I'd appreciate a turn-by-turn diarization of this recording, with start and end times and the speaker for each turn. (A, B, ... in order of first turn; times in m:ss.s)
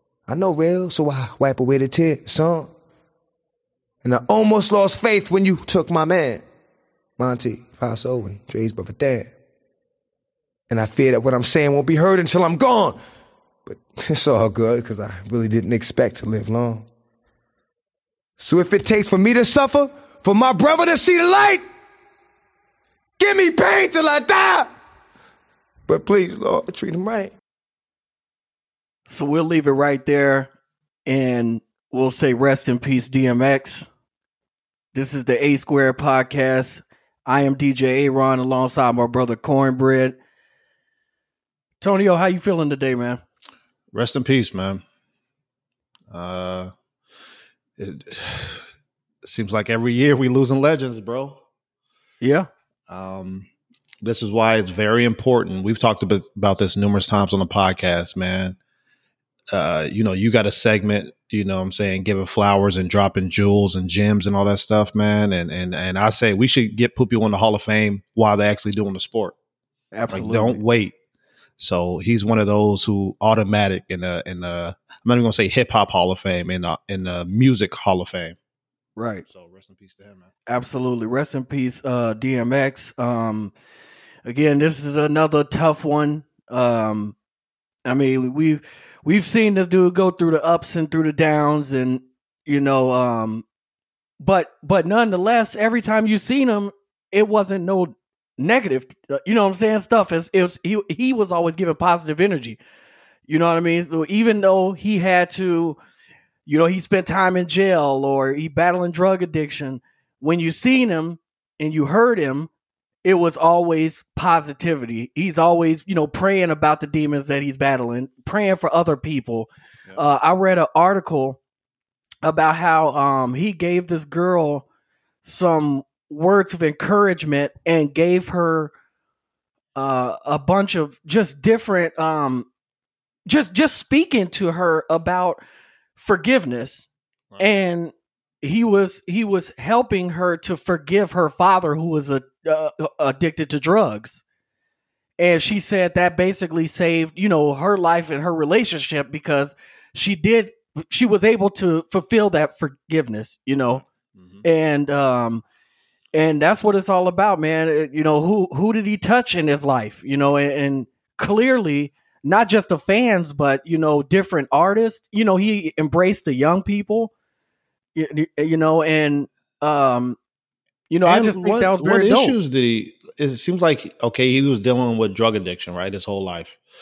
0:00.3-0:02.7 A
0:04.0-0:06.4 A
0:07.2-0:09.3 A
0:10.7-0:13.0 A
0:13.6-0:16.9 A
0:18.4-0:21.7 A
0:23.2-0:24.7 A
0:25.9-0:27.3 A
0:29.1-0:30.5 B
0:31.1-0:33.9 B
0:34.9-0:40.2 B
0:41.8-0:43.2 B
0:43.9-0:44.8 C
0:46.1-0:46.7 C
0:47.8-0:48.6 C
0:49.2-0:51.4 C
0:52.2-0:52.5 B
0:52.9-0:53.5 C
0:54.0-0:58.6 C
0:59.5-1:09.4 C
1:09.9-1:10.6 B
1:10.1-1:10.9 C
1:11.6-1:18.4 C
1:19.0-1:19.2 B
1:19.3-1:20.3 C
1:20.5-1:23.5 B
1:24.3-1:27.2 B
1:27.9-1:33.4 B
1:34.2-1:42.6 B
1:43.3-1:45.8 B
1:46.5-1:52.5 B
1:53.0-2:01.4 B
2:02.2-2:04.6 B
2:05.2-2:08.7 B
2:09.8-2:12.5 B
2:13.3-2:15.4 B
2:16.0-2:16.9 B
2:17.4-2:24.2 B
2:25.2-2:33.8 B
2:34.2-2:34.4 C
2:34.4-2:35.4 B
2:36.2-2:47.1 B
2:48.0-2:50.2 B
2:50.9-2:52.4 B
2:51.0-2:56.6 C